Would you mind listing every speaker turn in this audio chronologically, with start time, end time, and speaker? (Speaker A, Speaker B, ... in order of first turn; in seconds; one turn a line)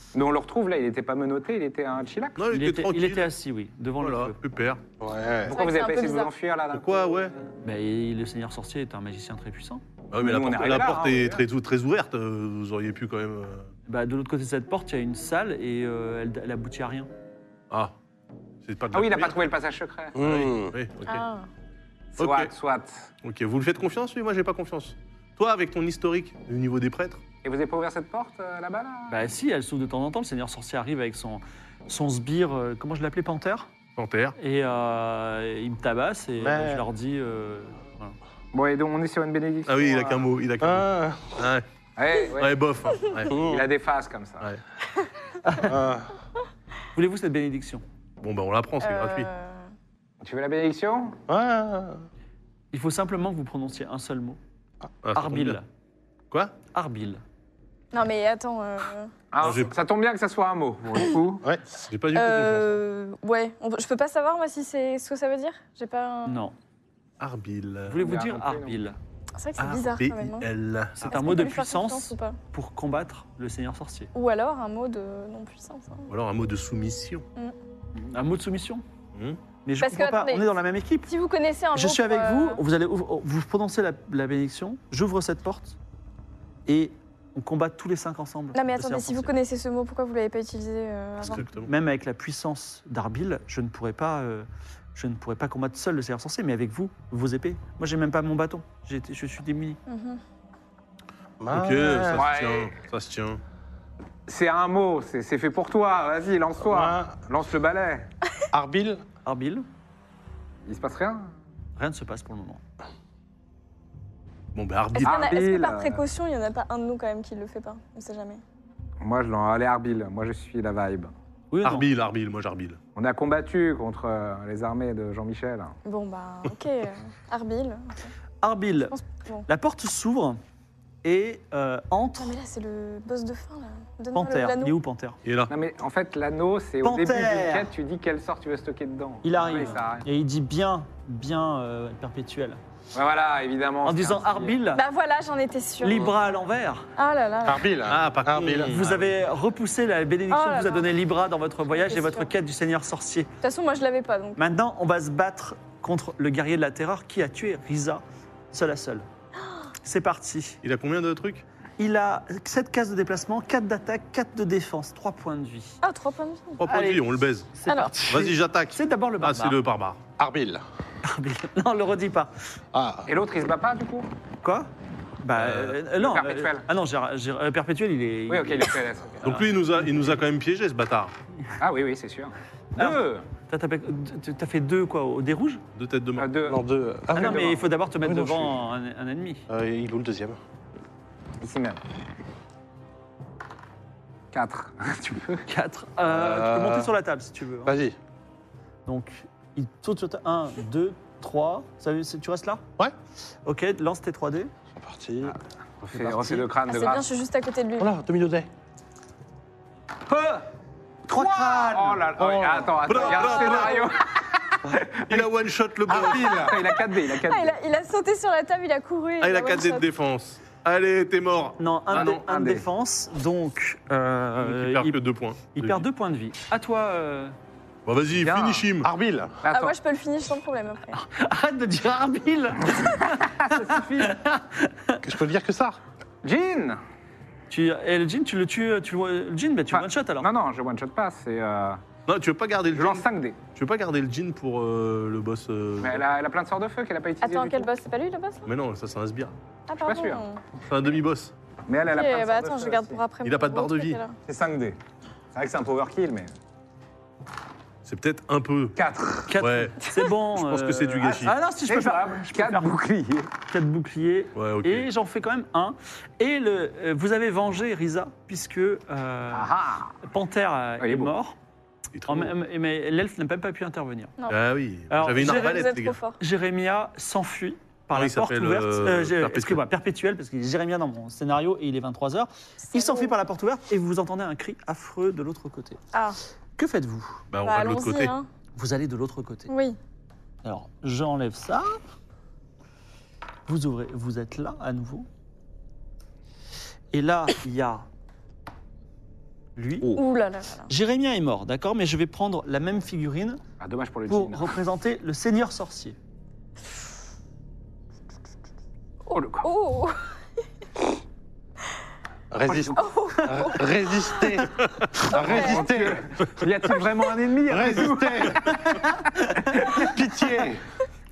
Speaker A: 0.1-2.4
Speaker B: 2.4-3.3
Speaker C: 2.5-4.3
Speaker B: 4.0-4.8
Speaker D: 5.0-5.5
Speaker A: 5.5-7.2
Speaker E: 5.5-6.3
Speaker B: 6.7-7.3
Speaker C: 7.6-9.8
Speaker B: 10.1-13.7
Speaker A: 10.2-11.4
Speaker C: 13.9-17.1
Speaker B: 18.6-19.3
Speaker A: 18.9-20.1
Speaker D: 20.1-20.7
Speaker B: 20.2-21.2
Speaker E: 21.0-21.5
Speaker A: 22.2-23.1
Speaker B: 22.2-22.5
Speaker B: 23.2-27.2
Speaker A: 27.4-29.1
Speaker C: 29.1-33.7
Speaker B: 34.0-34.3
Speaker C: 34.4-38.1
Speaker D: 36.4-36.8
Speaker A: 38.5-40.3
Speaker B: 39.7-41.6
Speaker D: 40.6-41.4
Speaker A: 42.0-42.6
Speaker B: 42.3-43.4
Speaker D: 43.3-43.6
Speaker A: 43.3-44.5
Speaker D: 45.6-46.1
Speaker C: 46.9-47.8
Speaker B: 48.2-49.3
Speaker E: 48.8-49.6
Speaker A: 50.2-51.2
Speaker D: 51.3-52.0
Speaker C: 52.7-54.4
Speaker B: 55.0-55.6
Speaker C: 55.1-55.6
Speaker C: 56.7-57.2
Speaker E: 57.9-59.1
Speaker A: 59.3-61.4
Speaker B: 59.4-59.7
Speaker B: 61.8-62.8
Speaker E: 62.1-66.5
Speaker C: 66.2-66.5
Speaker B: 67.2-68.0
Speaker C: 67.9-69.0
Speaker A: 68.0-68.8
Speaker E: 69.4-70.5
Speaker B: 69.6-71.3
Speaker C: 71.0-74.1
Speaker E: 71.0-72.4
Speaker E: 74.1-76.1
Speaker B: 76.1-77.2
Speaker C: 78.0-78.8
Speaker C: 79.6-81.1
Speaker E: 79.8-82.6
Speaker C: 81.7-85.8
Speaker C: 86.7-89.3
Speaker E: 88.5-91.4
Speaker B: 91.2-91.7
Speaker C: 91.3-99.8
Speaker E: 99.9-100.2
Speaker D: 101.4-102.3
Speaker B: 101.5-103.4
Speaker A: 102.1-102.7
Speaker A: 104.3-108.1
Speaker D: 106.7-107.2
Speaker D: 108.5-109.0
Speaker C: 109.2-109.6
Speaker A: 110.7-111.3
Speaker C: 111.8-112.6
Speaker B: 114.5-115.3
Speaker E: 115.0-118.4
Speaker A: 115.0-116.0
Speaker A: 119.0-121.1
Speaker C: 121.5-121.9
Speaker B: 121.6-122.8
Speaker A: 122.9-125.8
Speaker E: 125.8-128.1
Speaker C: 128.4-130.4
Speaker E: 128.9-129.5
Speaker C: 131.0-132.3
Speaker E: 132.2-134.8
Speaker C: 134.1-135.2
Speaker B: 135.2-135.5
Speaker A: 135.5-140.1
Speaker C: 136.8-137.7
Speaker C: 139.2-142.6
Speaker A: 142.9-144.6
Speaker C: 143.8-144.8
Speaker E: 144.7-146.1
Speaker C: 145.8-146.9
Speaker E: 147.0-147.7
Speaker D: 147.4-148.8
Speaker B: 147.9-149.0
Speaker C: 148.7-153.3
Speaker E: 150.3-150.9
Speaker E: 151.8-152.3
Speaker E: 153.4-154.4
Speaker C: 154.4-159.1
Speaker C: 159.8-160.6
Speaker B: 160.6-161.4
Speaker C: 161.8-165.8
Speaker E: 165.8-166.6
Speaker B: 166.6-167.5
Speaker C: 166.6-169.6
Speaker E: 167.7-168.1
Speaker B: 168.1-170.0
Speaker D: 170.2-170.6
Speaker C: 171.0-172.4
Speaker D: 172.7-173.1
Speaker A: 173.1-174.1
Speaker C: 174.4-174.7
Speaker C: 175.2-178.7
Speaker B: 175.3-175.7
Speaker A: 175.9-176.7
Speaker A: 178.3-179.5
Speaker B: 179.2-181.1
Speaker A: 181.6-183.2
Speaker C: 182.8-185.6
Speaker B: 185.7-186.4
Speaker A: 186.2-186.6
Speaker D: 186.4-188.6
Speaker C: 187.1-189.4
Speaker A: 187.1-187.6
Speaker D: 189.5-190.4
Speaker A: 191.4-191.8
Speaker A: 194.3-195.4
Speaker C: 195.5-197.7
Speaker D: 196.0-196.9
Speaker D: 197.6-197.9
Speaker C: 198.8-202.6
Speaker C: 203.4-204.5
Speaker D: 204.7-205.4
Speaker A: 205.8-207.1
Speaker D: 205.9-206.4
Speaker E: 206.7-207.9
Speaker D: 207.8-208.5
Speaker A: 210.1-210.4
Speaker C: 211.1-212.1
Speaker A: 211.1-215.3
Speaker D: 212.2-213.3
Speaker B: 212.8-213.9
Speaker B: 215.1-216.6
Speaker D: 215.9-216.8
Speaker A: 216.0-217.6
Speaker E: 217.1-219.9
Speaker B: 219.2-222.2
Speaker C: 221.6-227.3
Speaker A: 221.9-222.7
Speaker B: 224.4-225.8
Speaker B: 227.8-228.9
Speaker A: 228.2-228.7
Speaker D: 228.8-229.4
Speaker A: 229.4-229.8
Speaker E: 229.5-231.0
Speaker C: 230.9-235.0
Speaker A: 233.3-234.2
Speaker D: 235.0-235.8
Speaker A: 236.2-236.8
Speaker C: 237.5-240.3
Speaker A: 239.7-241.8
Speaker B: 242.1-246.0
Speaker A: 242.7-243.4
Speaker A: 245.8-247.7
Speaker E: 247.2-248.5
Speaker B: 248.4-249.3
Speaker E: 249.7-250.4
Speaker A: 249.8-250.2
Speaker B: 250.7-251.3
Speaker A: 251.7-253.0
Speaker E: 251.9-254.1
Speaker B: 253.2-254.0
Speaker A: 254.2-254.8
Speaker A: 255.3-256.3
Speaker B: 257.8-258.8
Speaker A: 258.8-259.3
Speaker C: 259.3-262.7
Speaker B: 259.3-261.4
Speaker A: 261.0-263.3
Speaker C: 263.5-271.4
Speaker B: 264.3-264.9
Speaker A: 269.3-269.9
Speaker A: 270.8-271.1
Speaker B: 271.9-272.3
Speaker C: 272.1-274.1
Speaker B: 274.3-276.0
Speaker C: 274.9-275.7
Speaker E: 275.2-276.2
Speaker C: 276.2-285.8
Speaker B: 277.9-279.6
Speaker E: 282.7-283.1
Speaker E: 285.9-286.2
Speaker C: 286.6-287.2
Speaker B: 287.3-288.1
Speaker E: 287.4-288.3
Speaker C: 288.6-289.5
Speaker E: 289.5-289.8
Speaker C: 290.4-291.8
Speaker C: 293.5-295.1
Speaker C: 296.9-297.9
Speaker C: 299.6-300.0
Speaker E: 299.9-300.7
Speaker C: 300.7-303.4
Speaker A: 303.6-304.5
Speaker C: 304.1-305.9
Speaker E: 309.1-310.0
Speaker A: 309.1-309.5
Speaker D: 312.3-316.0
Speaker E: 312.7-314.3
Speaker E: 315.1-315.6
Speaker A: 315.1-318.5
Speaker D: 317.4-318.6
Speaker C: 318.5-319.9
Speaker D: 319.7-320.6